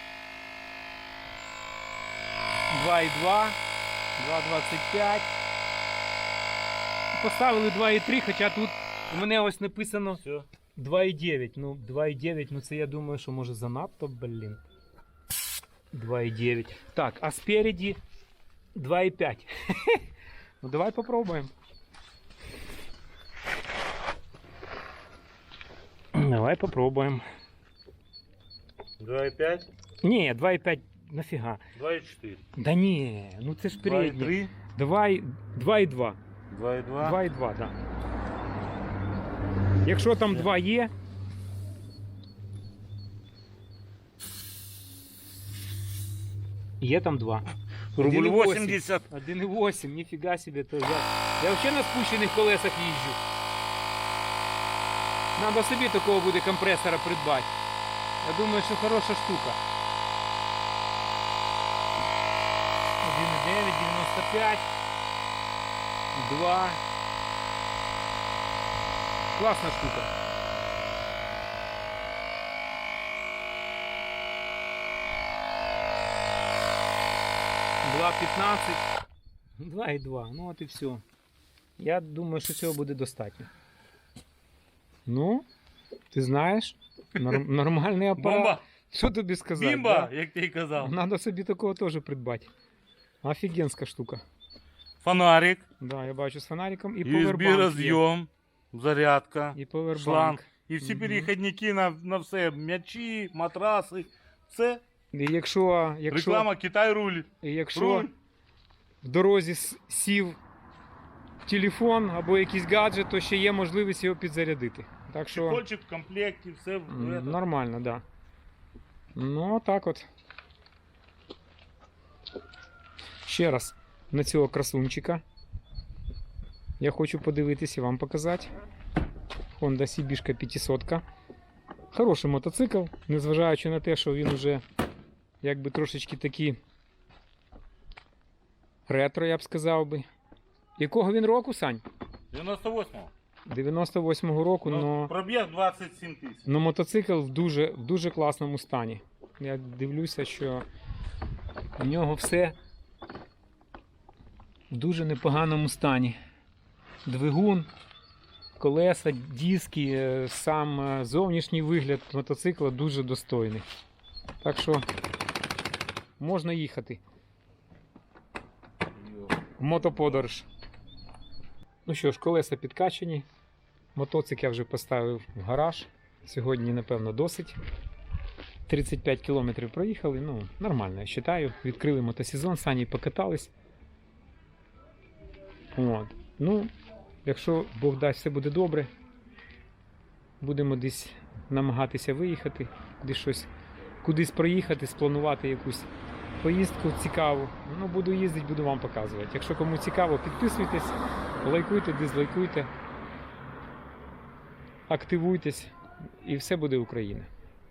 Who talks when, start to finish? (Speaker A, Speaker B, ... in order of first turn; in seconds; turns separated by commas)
Speaker A: 2.7-3.6, Speaker A: 4.2-5.3, Speaker A: 7.1-10.2, Speaker A: 10.8-14.6, Speaker A: 15.9-18.0, Speaker A: 18.8-20.0, Speaker A: 20.6-21.5, Speaker A: 26.1-27.2, Speaker B: 29.0-29.7, Speaker A: 30.0-31.6, Speaker B: 31.8-32.4, Speaker A: 32.5-36.2, Speaker B: 33.8-34.5, Speaker B: 36.5-37.2, Speaker A: 37.0-37.8, Speaker A: 39.8-40.9, Speaker A: 46.8-53.2, Speaker B: 48.0-49.1, Speaker A: 55.4-57.5, Speaker A: 58.2-59.6, Speaker A: 63.0-64.7, Speaker A: 66.1-66.8, Speaker A: 69.3-70.1, Speaker A: 77.8-78.8, Speaker A: 79.6-81.0, Speaker A: 81.8-83.5, Speaker A: 85.1-85.5, Speaker A: 86.1-90.1, Speaker B: 88.2-88.7, Speaker B: 89.6-90.9, Speaker A: 90.8-92.5, Speaker A: 93.2-94.2, Speaker B: 95.0-95.6, Speaker A: 95.8-98.0, Speaker B: 97.0-104.8, Speaker A: 99.5-101.3, Speaker A: 105.1-106.5, Speaker B: 106.1-108.1, Speaker A: 107.4-108.1, Speaker A: 109.0-110.4, Speaker A: 111.5-115.6, Speaker B: 115.3-117.4, Speaker A: 116.9-118.0, Speaker A: 119.2-120.1, Speaker A: 123.2-125.2, Speaker A: 126.8-128.5, Speaker A: 129.6-131.0, Speaker A: 131.9-134.6, Speaker A: 135.4-136.6, Speaker A: 138.9-140.1, Speaker A: 140.8-141.8, Speaker B: 142.3-143.1, Speaker A: 143.5-145.1, Speaker B: 144.7-146.4, Speaker A: 146.4-150.7, Speaker A: 151.8-152.6, Speaker A: 154.7-156.2, Speaker A: 157.1-157.7, Speaker A: 158.6-163.7, Speaker A: 164.4-164.9, Speaker A: 166.2-167.0, Speaker A: 169.6-170.5, Speaker A: 171.9-173.3, Speaker A: 173.9-177.6, Speaker A: 178.7-183.5, Speaker A: 185.7-186.7, Speaker A: 187.2-188.9, Speaker A: 190.4-193.5, Speaker A: 194.0-195.9, Speaker A: 196.4-202.7, Speaker A: 204.9-207.3